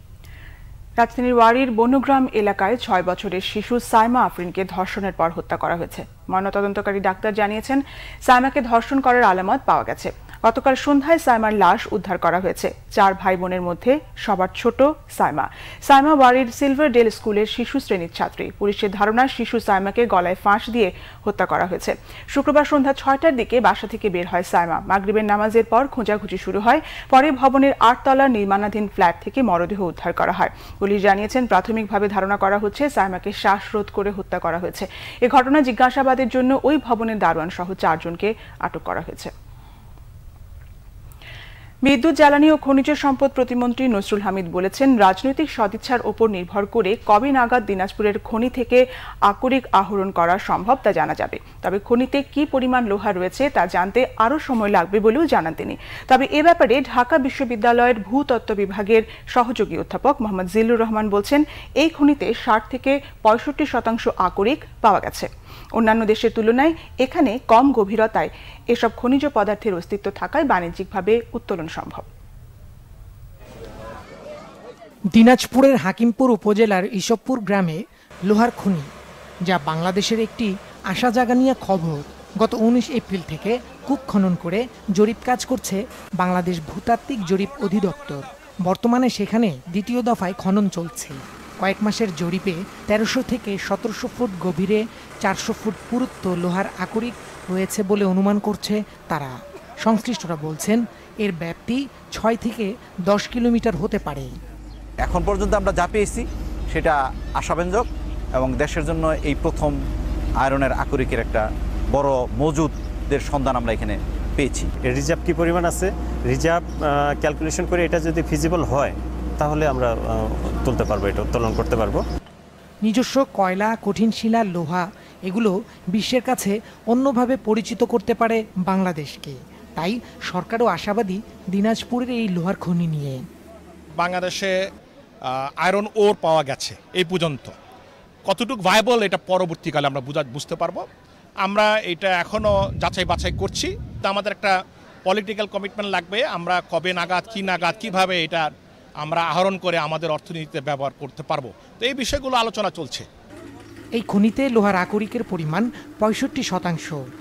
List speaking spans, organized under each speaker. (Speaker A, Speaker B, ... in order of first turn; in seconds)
Speaker A: 1.0-39.3, 41.8-72.1
Speaker B: 75.2-77.8, 78.4-78.8, 79.6-80.5, 81.0-82.0, 82.5-85.8, 86.3-88.2, 88.8-91.1, 91.7-94.8, 95.3-99.3, 99.9-104.3, 122.9-124.8, 126.0-129.3, 129.8-133.2, 154.0-156.9
Speaker C: 105.0-109.8, 110.4-114.7
Speaker D: 114.9-116.6, 117.2-119.9, 120.6-122.0
Speaker E: 133.9-134.6, 135.3-137.5, 138.2-140.9, 141.4-153.1